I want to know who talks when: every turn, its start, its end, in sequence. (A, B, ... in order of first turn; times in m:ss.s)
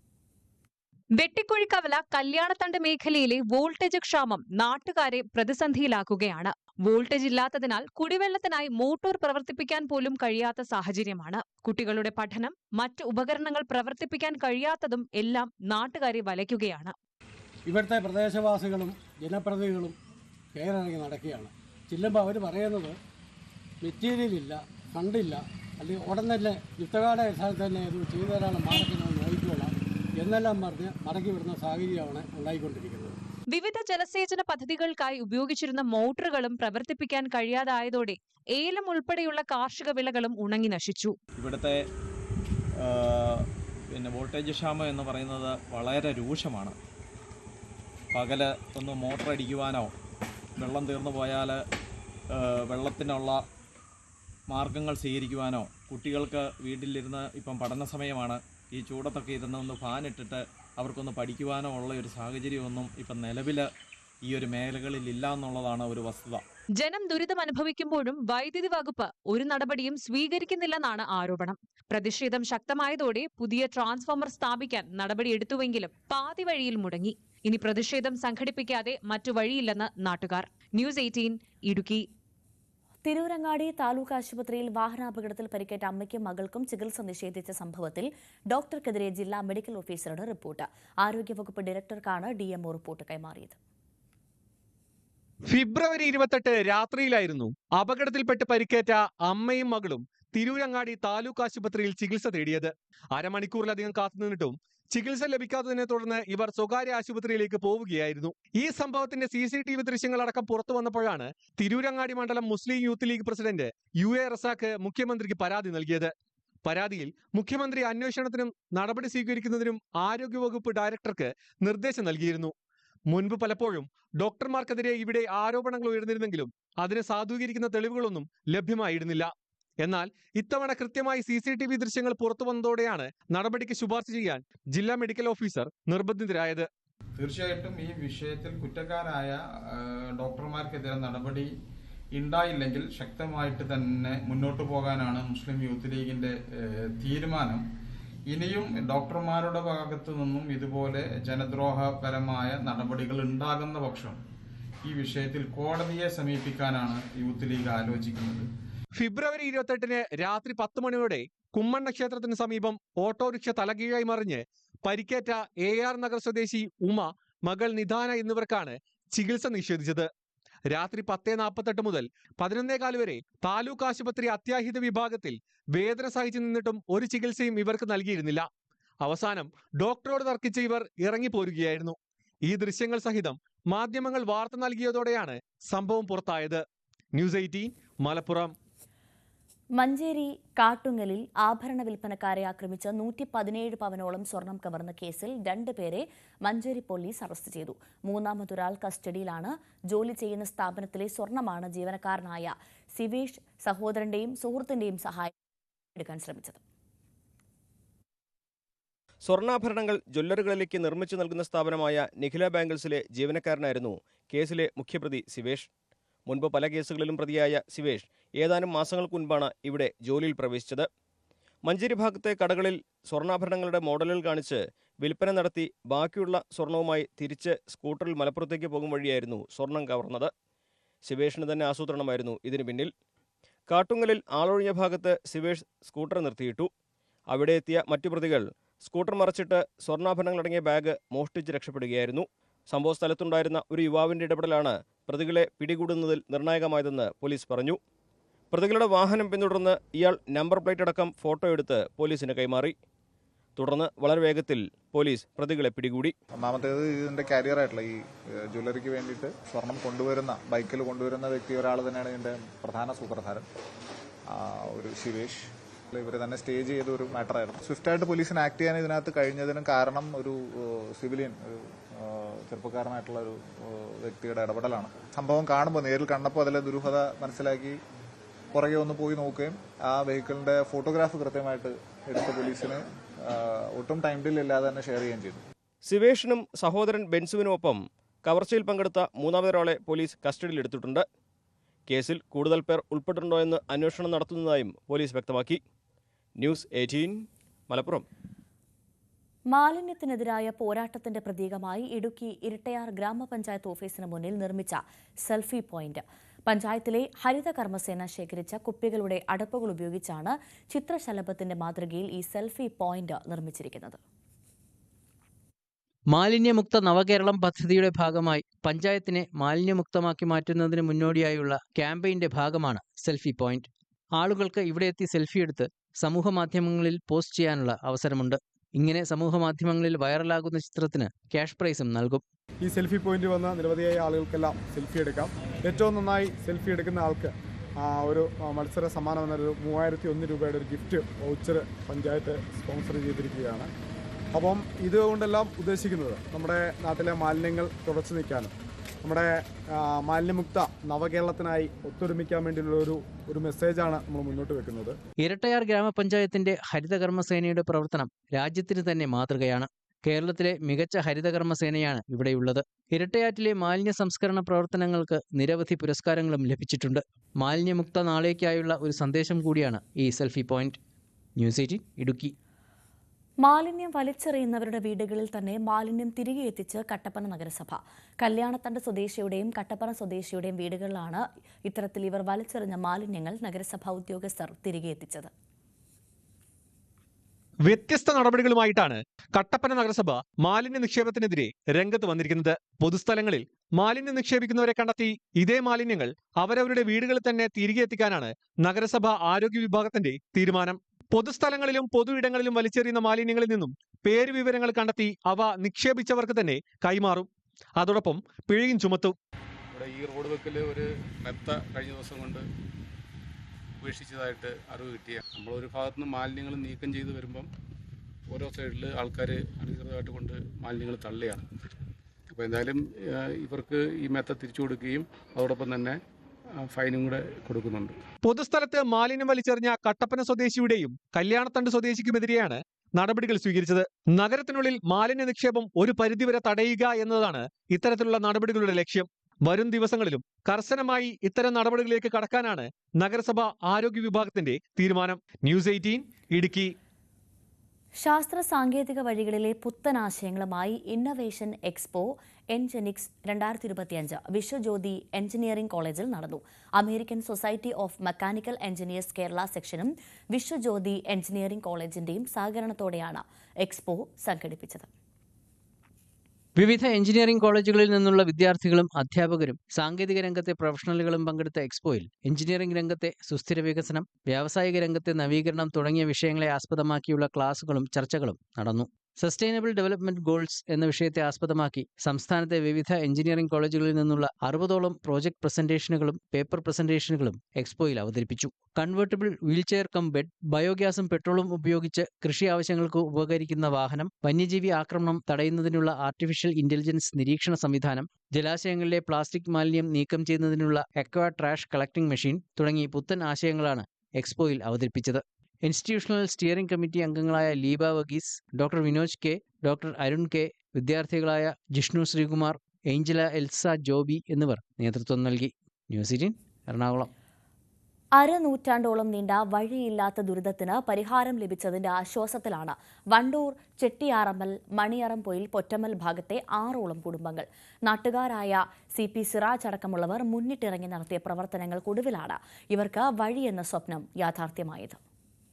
0:01.2-0:16.9 A
0:17.6-0:20.0 B
0:20.5-0:22.9 B
0:23.8-0:33.2 B
0:33.5-0:41.2 A
0:41.4-0:41.8 C
0:42.8-0:46.8 C
0:48.1-0:49.9 C
0:50.6-0:51.6 C
0:52.3-0:53.4 C
0:54.5-1:03.7 C
1:04.2-1:06.4 C
1:06.8-1:22.0 A
1:23.0-1:33.6 D
1:35.5-1:56.1 E
1:56.6-2:02.5 E
2:03.1-2:09.3 E
2:09.8-2:16.7 E
2:17.2-2:21.5 F
2:22.1-2:27.6 F
2:28.3-2:34.2 F
2:34.8-2:38.4 F
2:39.0-2:50.1 E
2:50.7-2:58.5 E
2:59.0-3:06.6 E
3:07.1-3:08.5 E
3:09.8-3:25.3 D
3:25.9-3:26.6 D
3:29.2-3:35.7 G
3:36.3-3:40.9 G
3:41.6-3:50.3 G
3:51.0-3:52.9 G
3:53.7-3:56.7 G
3:57.3-4:07.8 G
4:08.5-4:12.7 G
4:13.6-4:16.1 G
4:16.3-4:23.4 H
4:24.3-4:37.8 H
4:38.5-4:45.4 H
4:45.8-4:51.0 G
4:51.9-4:55.6 G
4:56.4-4:58.0 G
4:59.5-5:14.0 D
5:16.1-5:32.2 I
5:32.6-5:43.7 J
5:44.3-5:48.5 J
5:49.0-5:55.0 J
5:55.2-6:10.8 I
6:11.4-6:12.3 I
6:13.4-6:25.3 D
6:27.6-6:49.2 E
6:49.7-6:52.4 K
6:53.8-6:57.5 K
6:58.3-7:01.4 K
7:02.3-7:06.0 K
7:06.6-7:08.0 K
7:08.2-7:26.7 E
7:28.0-7:44.9 D
7:46.6-8:37.1 I
8:38.1-8:55.0 D